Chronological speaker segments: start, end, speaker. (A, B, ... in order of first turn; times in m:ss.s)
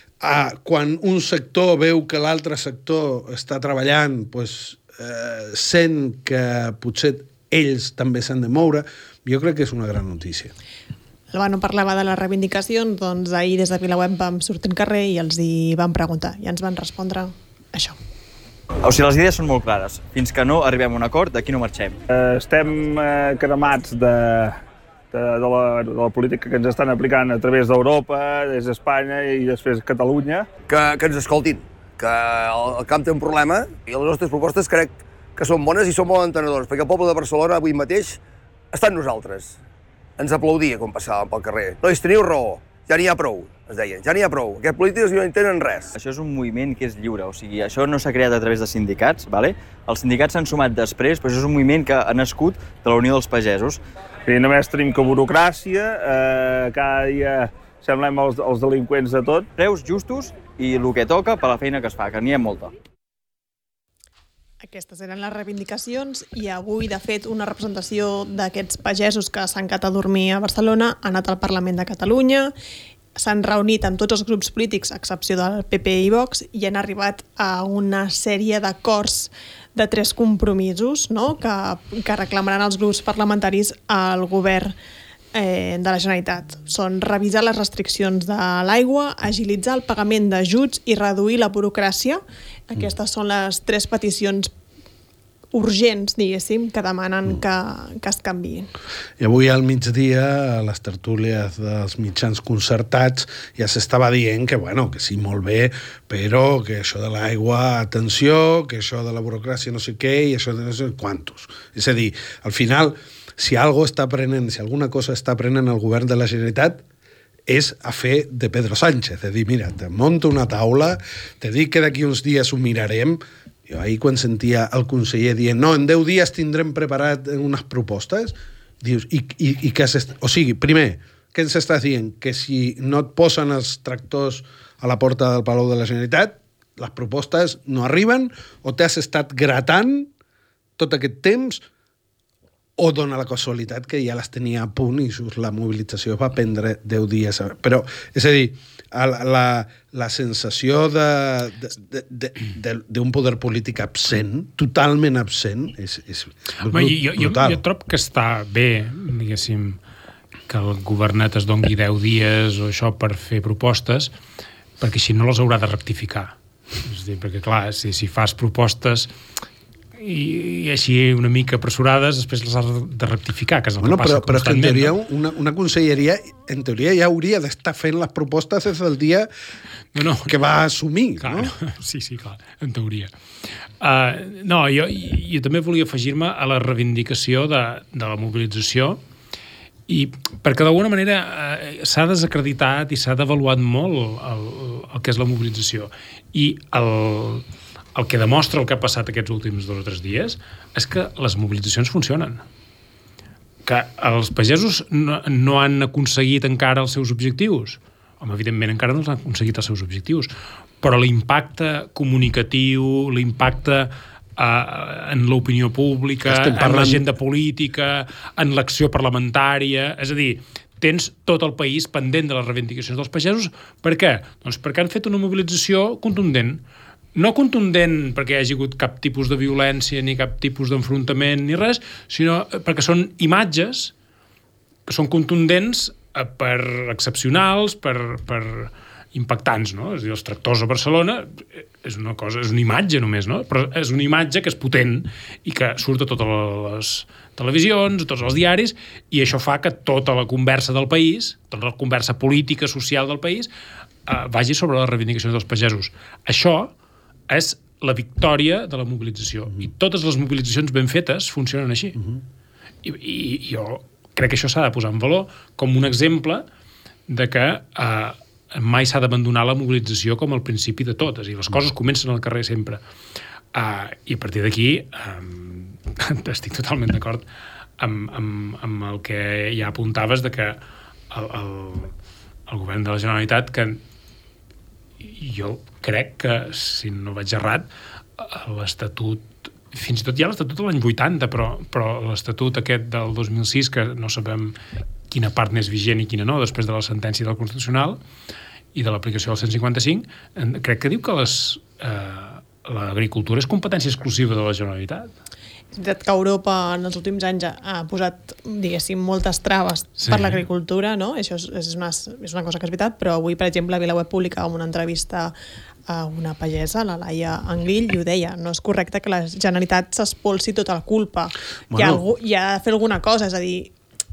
0:00.2-0:10.5 A
0:11.3-0:18.0 B
0:18.8-0:22.0 C
0:22.1-0:24.6 D
0:25.1-0:30.5 D
0:30.7-0:38.2 E
0:38.7-0:39.6 E
0:40.2-0:45.9 E
0:45.9-0:53.8 C
0:54.3-0:59.5 D
0:59.6-1:02.7 C
1:04.6-1:12.5 B
1:13.2-1:24.7 B
1:25.3-1:34.5 B
1:35.5-1:38.7 B
1:39.2-1:56.8 A
1:57.5-2:20.1 A
2:20.8-2:21.6 A
2:22.8-2:37.6 A
2:36.7-2:39.8 F
2:40.5-2:44.1 F
2:44.8-2:49.1 F
2:50.0-2:54.9 F
2:53.8-2:59.3 A
3:00.0-3:00.4 F
3:00.1-3:01.5 A
3:01.2-3:03.1 F
3:03.8-3:09.0 F
3:09.9-3:22.4 F
3:23.7-3:30.3 F
3:30.8-3:46.6 F
3:36.2-3:37.0 A
3:47.2-3:53.9 F
3:54.9-4:13.5 F
4:14.1-4:16.7 F
4:17.3-4:22.0 F
4:22.8-4:26.4 F
4:27.1-4:32.8 F
4:33.5-4:37.3 F
4:37.8-4:41.9 F
4:42.5-4:43.8 F
4:45.0-4:54.6 F
4:55.1-4:58.0 F
4:58.7-5:05.1 F
5:05.7-5:15.3 B
5:10.0-5:10.4 F
5:15.9-5:23.7 B
5:21.7-5:22.0 A